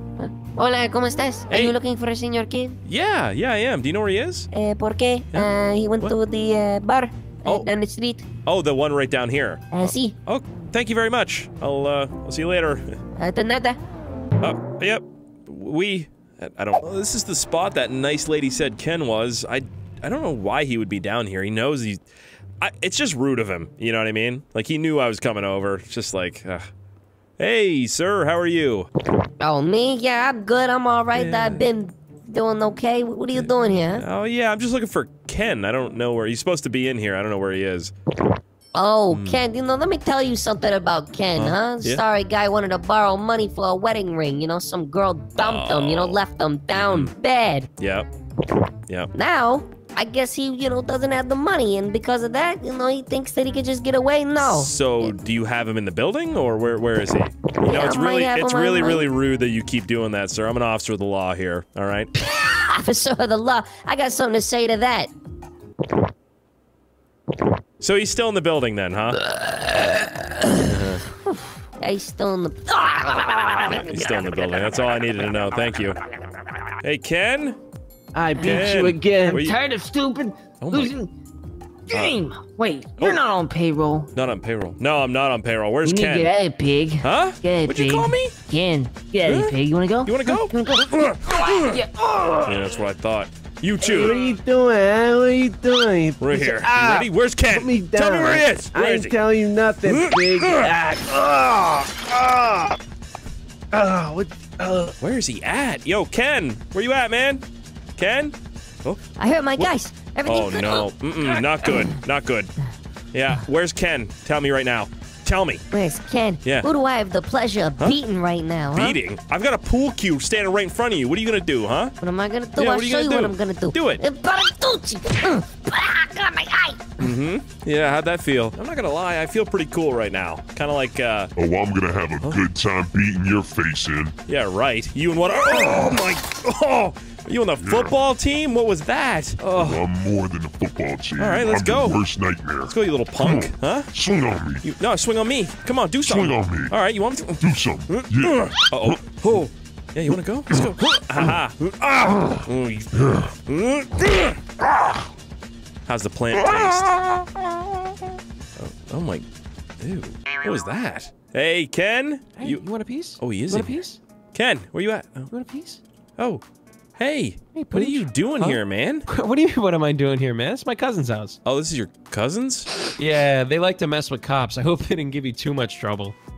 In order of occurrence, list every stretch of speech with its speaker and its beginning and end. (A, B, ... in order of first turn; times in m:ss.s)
0:00.2-0:02.8 A
0:01.5-0:01.7 B
0:02.8-0:04.5 B
0:04.5-0:08.2 A
0:05.3-0:06.1 B
0:08.4-0:13.0 B
0:09.7-0:10.1 A
0:13.2-0:13.8 A
0:14.4-0:22.0 B
0:22.6-0:26.7 B
0:27.4-0:28.9 B
0:29.4-0:34.0 A
0:31.1-0:31.7 B
0:33.3-0:37.9 B
0:38.7-0:47.7 A
0:39.1-0:39.4 B
0:41.3-0:42.0 B
0:45.4-0:46.2 B
0:47.8-0:48.1 B
0:49.1-0:55.1 A
0:54.4-1:02.1 B
0:57.6-0:59.1 A
1:02.2-1:05.1 A
1:07.8-1:09.2 B
1:10.6-1:11.0 B
1:11.2-1:12.7 A
1:12.7-1:14.3 C
1:13.7-1:16.0 B
1:16.8-1:17.6 B
1:18.1-1:19.4 D
1:18.4-1:19.6 B
1:18.4-1:21.1 C
1:20.6-1:20.9 B
1:21.9-1:24.1 C
1:21.9-1:22.2 B
1:23.0-1:23.3 B
1:24.1-1:26.3 B
1:25.8-1:32.5 C
1:27.0-1:28.3 B
1:29.2-1:31.8 B
1:32.4-1:34.2 B
1:33.8-1:42.8 D
1:36.2-1:39.2 B
1:39.8-1:40.7 B
1:43.7-1:44.9 D
1:45.0-1:47.4 B
1:48.0-1:49.0 B
1:49.2-1:51.4 A
1:50.2-1:52.5 B
1:53.1-1:55.6 B
1:55.7-1:59.0 A
1:56.4-1:56.7 B
1:58.7-2:01.9 B
2:02.0-2:06.8 A
2:02.6-2:04.0 B
2:07.0-2:11.3 B
2:11.4-2:14.2 E
2:14.3-2:19.8 B
2:15.5-2:16.0 E
2:17.6-2:17.9 E
2:19.5-2:24.6 E
2:21.2-2:22.0 B
2:22.6-2:23.9 B
2:24.6-2:34.4 B
2:26.0-2:26.7 E
2:27.4-2:29.2 E
2:35.9-2:37.0 B
2:36.4-2:37.3 E
2:38.6-2:39.2 B
2:39.8-2:42.6 B
2:42.4-2:44.0 F
2:43.2-2:45.3 B
2:45.3-2:45.8 F
2:47.0-2:49.0 B
2:47.5-2:51.4 F
2:51.4-2:52.7 B
2:53.0-2:56.1 F